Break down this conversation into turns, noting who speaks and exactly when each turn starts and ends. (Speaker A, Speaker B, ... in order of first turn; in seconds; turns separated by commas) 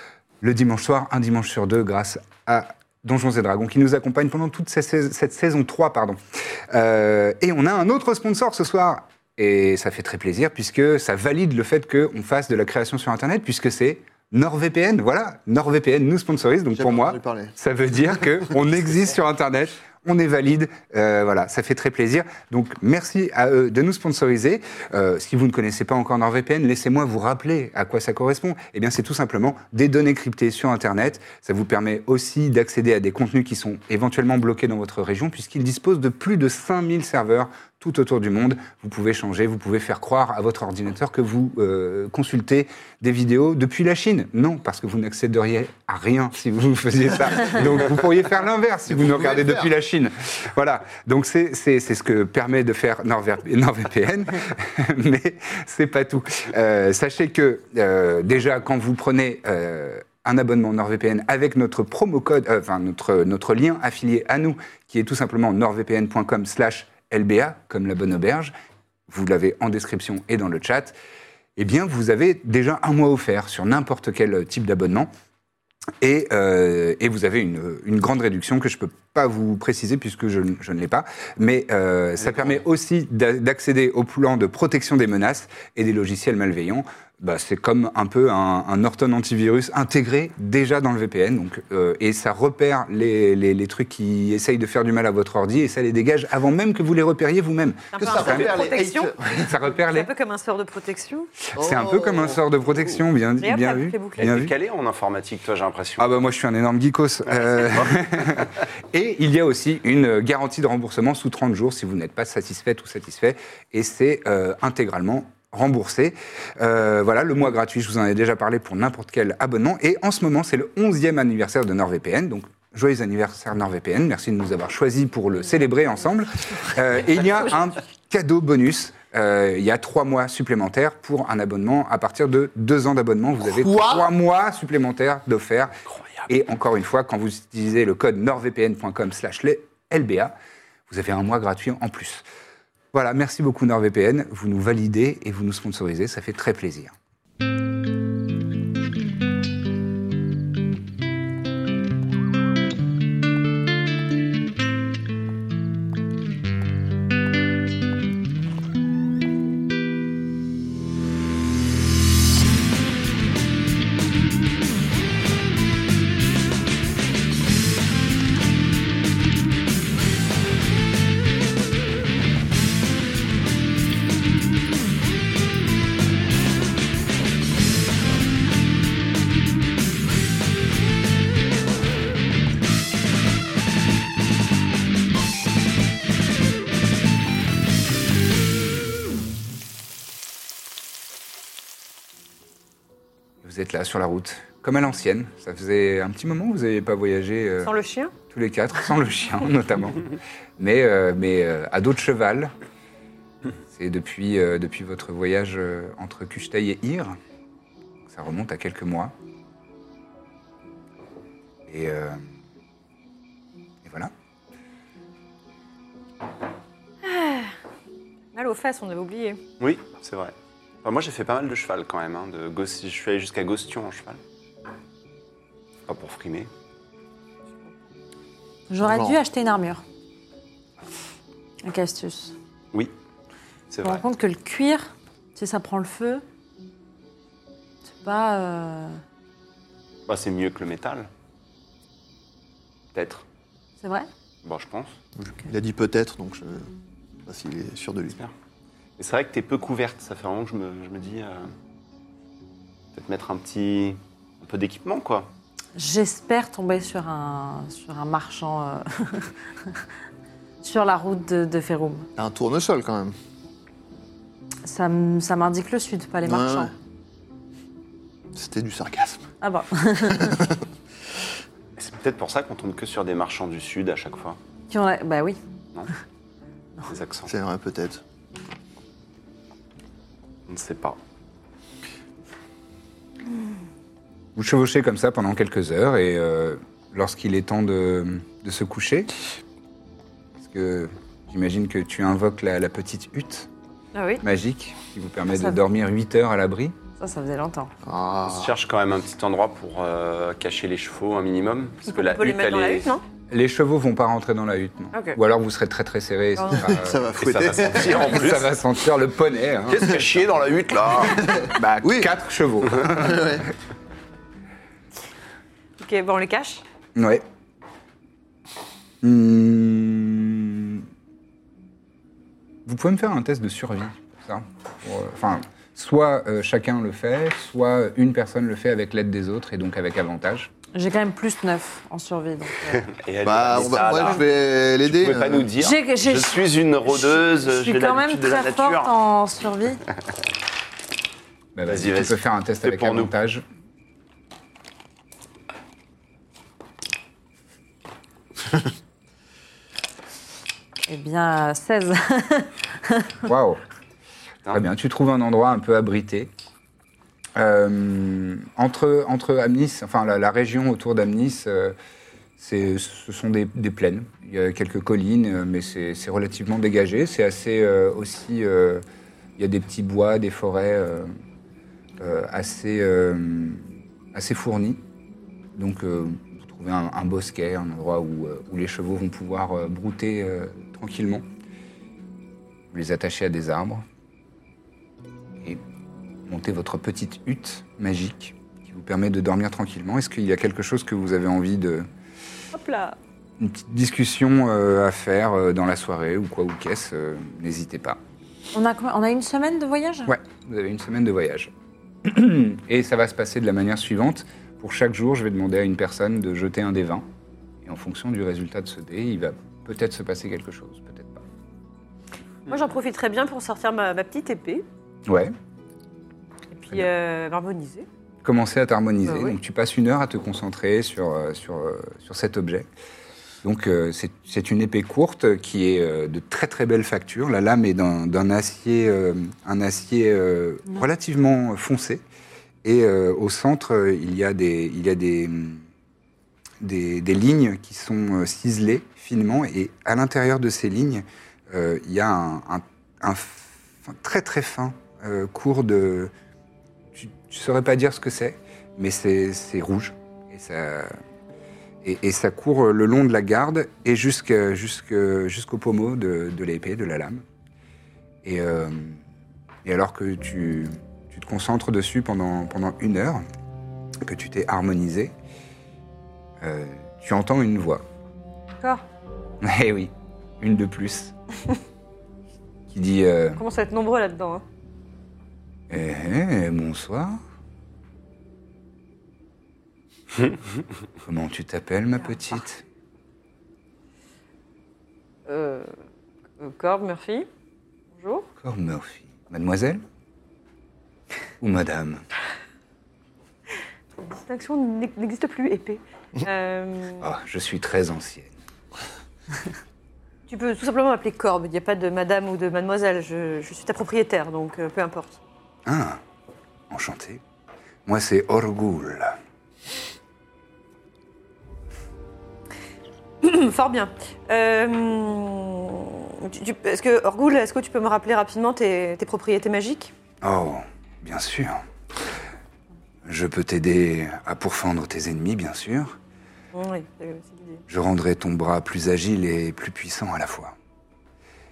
Speaker A: 0.4-6.2, Speaker A: 6.7-68.5, Speaker B: 16.7-17.6, Speaker B: 48.9-49.7, Speaker A: 69.1-70.9, Speaker A: 71.5-75.1, Speaker A: 76.0-98.5, Speaker C: 82.3-82.5, Speaker D: 97.9-99.1, Speaker B: 97.9-99.5, Speaker A: 99.4-100.1, Speaker D: 99.9-101.3, Speaker A: 101.5-104.5, Speaker B: 101.5-103.0, Speaker D: 103.4-104.3, Speaker C: 104.2-106.1, Speaker A: 106.0-135.7, Speaker C: 107.3-108.5, Speaker B: 133.4-134.1, Speaker C: 135.9-136.2, Speaker A: 136.3-140.3, Speaker A: 140.9-142.2, Speaker A: 142.9-146.9, Speaker A: 193.4-197.7, Speaker D: 197.6-198.1, Speaker A: 198.3-200.0, Speaker A: 200.6-202.5, Speaker A: 203.7-207.2, Speaker A: 208.1-209.1, Speaker A: 211.7-212.2, Speaker A: 213.8-214.1, Speaker D: 217.0-217.5, Speaker D: 218.3-219.4, Speaker C: 219.6-224.2, Speaker C: 225.9-226.5, Speaker E: 228.7-229.8, Speaker B: 228.8-229.2, Speaker E: 231.6-232.3, Speaker C: 233.7-234.0, Speaker E: 233.8-236.2, Speaker E: 237.9-239.0, Speaker C: 240.1-241.1, Speaker C: 242.9-243.2, Speaker E: 243.8-244.1, Speaker C: 244.4-245.0, Speaker B: 245.2-246.7, Speaker B: 247.2-248.2, Speaker C: 249.0-251.5, Speaker C: 252.9-255.3, Speaker E: 255.8-259.8, Speaker E: 260.6-262.1, Speaker B: 262.2-263.1, Speaker E: 264.6-266.7, Speaker B: 266.2-266.7, Speaker B: 268.3-269.3, Speaker E: 269.4-270.5, Speaker B: 270.1-270.6, Speaker C: 271.8-274.4, Speaker E: 274.7-275.4, Speaker C: 276.9-277.3, Speaker B: 277.2-278.0, Speaker C: 280.5-281.0, Speaker A: 284.4-289.1, Speaker A: 290.4-293.5, Speaker D: 293.9-294.2, Speaker A: 294.2-296.8, Speaker E: 295.3-295.6, Speaker E: 297.0-297.7, Speaker B: 297.8-298.6, Speaker C: 298.2-302.9, Speaker D: 301.9-303.0, Speaker A: 303.3-307.0, Speaker D: 306.4-306.7, Speaker B: 306.5-308.2, Speaker C: 307.2-308.5, Speaker A: 307.9-310.0, Speaker C: 309.7-311.5, Speaker B: 311.2-312.1, Speaker A: 311.5-313.4, Speaker B: 312.8-313.5, Speaker D: 315.8-316.6, Speaker A: 316.9-317.2, Speaker A: 319.0-320.8, Speaker A: 322.6-330.5, Speaker E: 330.7-332.8, Speaker C: 332.7-338.9, Speaker B: 333.2-335.5, Speaker E: 333.6-334.2, Speaker E: 335.6-339.8, Speaker A: 341.5-343.4, Speaker C: 341.7-343.1, Speaker E: 350.9-353.1, Speaker A: 353.2-353.6, Speaker A: 354.5-356.3, Speaker A: 357.4-361.7, Speaker A: 362.4-368.8, Speaker A: 369.4-371.1, Speaker A: 372.0-374.8, Speaker A: 375.6-381.2, Speaker A: 382.7-383.8, Speaker A: 386.3-391.9, Speaker D: 392.5-393.0, Speaker A: 393.4-398.0, Speaker E: 398.5-400.1, Speaker A: 400.1-401.5, Speaker A: 402.0-407.1, Speaker A: 407.6-411.2, Speaker D: 412.5-414.6, Speaker A: 415.1-415.3, Speaker D: 416.5-417.9, Speaker A: 418.2-422.6, Speaker D: 419.1-419.4, Speaker A: 423.4-432.0, Speaker A: 432.6-435.6, Speaker A: 436.6-446.1, Speaker A: 446.9-450.9, Speaker A: 451.8-457.2, Speaker A: 458.2-459.0, Speaker A: 459.6-463.2, Speaker A: 464.0-465.1, Speaker A: 466.4-467.8, Speaker A: 469.4-471.1, Speaker A: 472.7-473.4, Speaker D: 473.4-474.4, Speaker A: 475.7-477.2, Speaker A: 481.0-482.6, Speaker D: 485.3-485.7, Speaker D: 486.4-487.3, Speaker D: 488.0-488.3, Speaker A: 488.4-489.8, Speaker A: 491.4-492.0, Speaker D: 494.0-497.0, Speaker A: 497.0-498.3, Speaker D: 500.3-505.2, Speaker A: 505.6-506.0, Speaker A: 506.7-507.2, Speaker A: 507.9-509.2, Speaker D: 513.2-519.9, Speaker A: 520.2-521.6, Speaker A: 523.0-526.0, Speaker D: 526.5-527.6, Speaker A: 527.7-530.5